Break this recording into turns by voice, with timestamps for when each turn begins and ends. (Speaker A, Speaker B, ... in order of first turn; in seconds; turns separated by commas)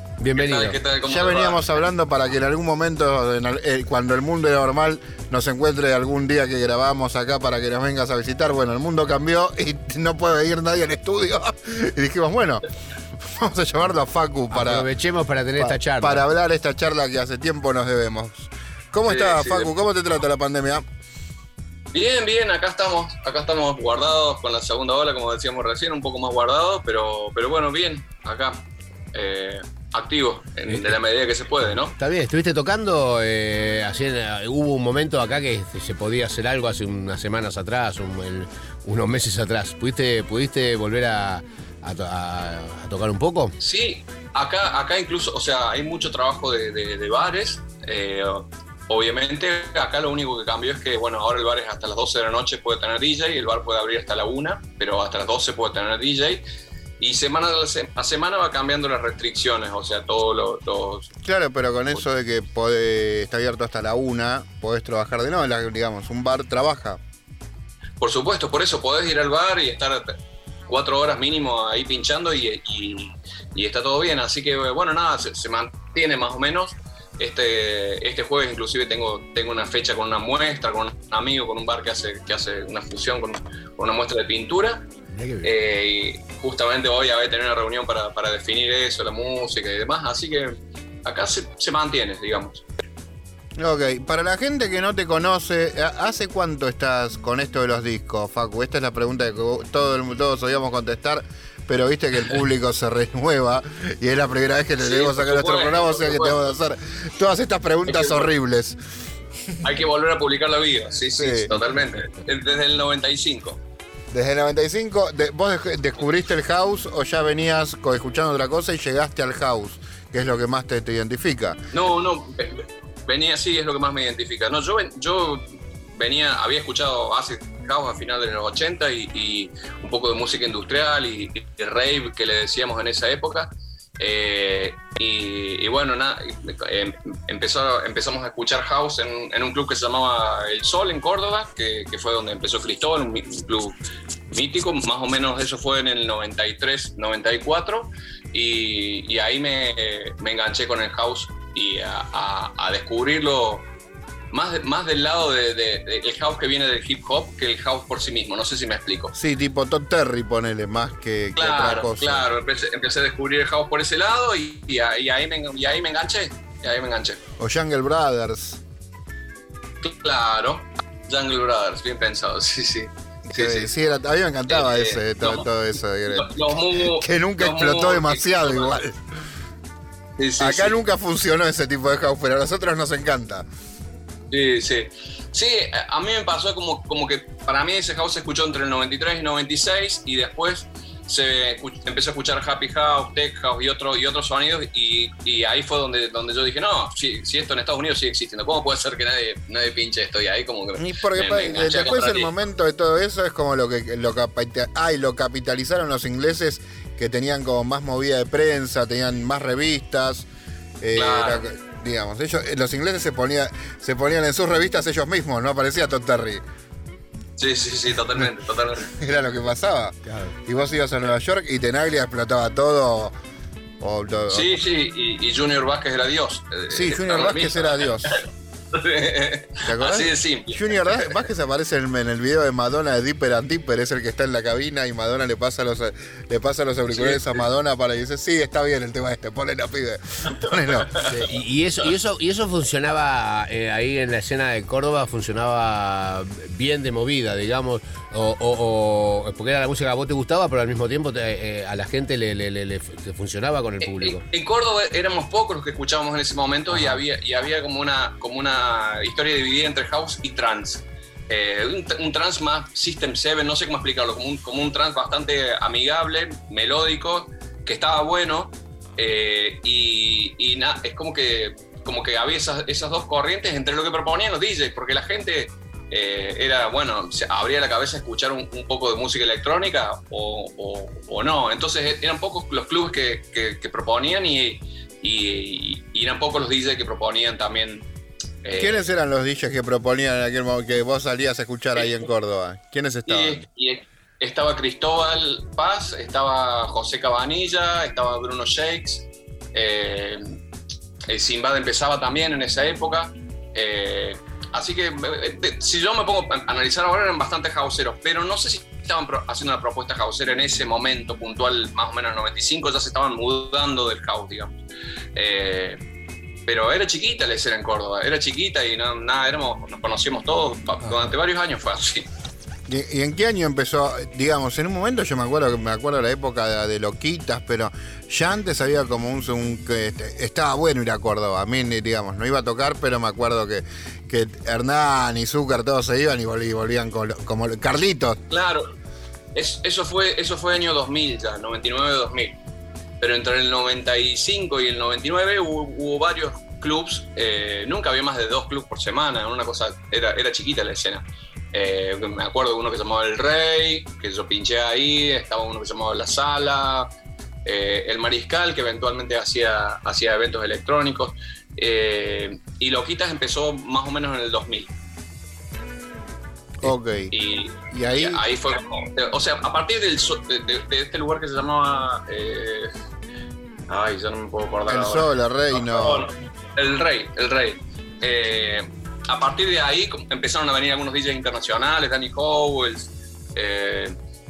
Speaker A: 0.2-0.8, Speaker B: 0.3-1.7, Speaker C: 1.1-12.6, Speaker C: 13.2-14.9, Speaker A: 14.5-16.2, Speaker C: 15.6-20.8, Speaker B: 19.1-19.7, Speaker B: 21.9-31.9, Speaker A: 30.7-30.9, Speaker A: 32.0-43.5, Speaker B: 43.6-56.4, Speaker B: 57.0-61.1, Speaker C: 61.2-67.0, Speaker B: 68.0-70.2, Speaker B: 70.7-84.9, Speaker A: 85.2-85.5, Speaker B: 85.4-92.6, Speaker C: 93.6-108.8, Speaker B: 104.8-106.4, Speaker B: 107.9-108.3, Speaker B: 109.6-113.6, Speaker C: 111.2-111.5, Speaker C: 114.1-121.6, Speaker B: 121.7-143.8, Speaker B: 144.3-153.7, Speaker B: 154.3-159.1, Speaker C: 159.1-162.3, Speaker B: 161.4-167.2, Speaker C: 167.4-168.6, Speaker B: 169.8-173.7, Speaker C: 173.3-179.0, Speaker B: 174.5-175.5, Speaker B: 176.1-178.8, Speaker B: 180.2-180.8, Speaker C: 180.4-183.4, Speaker B: 184.3-202.3, Speaker C: 200.8-210.2, Speaker C: 210.8-216.4, Speaker B: 210.9-211.4, Speaker B: 217.4-218.9, Speaker C: 218.9-223.1, Speaker C: 223.8-224.6, Speaker B: 224.3-231.2, Speaker C: 226.7-228.2, Speaker C: 229.7-240.9, Speaker B: 236.9-237.4, Speaker A: 240.9-254.2, Speaker B: 253.8-287.9, Speaker A: 256.7-257.0, Speaker B: 288.4-288.8, Speaker C: 288.6-293.4, Speaker B: 293.1-300.4, Speaker B: 301.1-314.6, Speaker B: 315.1-315.8, Speaker B: 316.4-322.1, Speaker C: 322.7-338.2, Speaker B: 338.3-338.7, Speaker B: 339.3-342.4, Speaker B: 343.0-356.9, Speaker B: 357.4-364.7, Speaker C: 366.6-367.1, Speaker B: 367.1-372.7, Speaker C: 367.7-368.2, Speaker B: 373.7-383.9, Speaker C: 374.7-376.1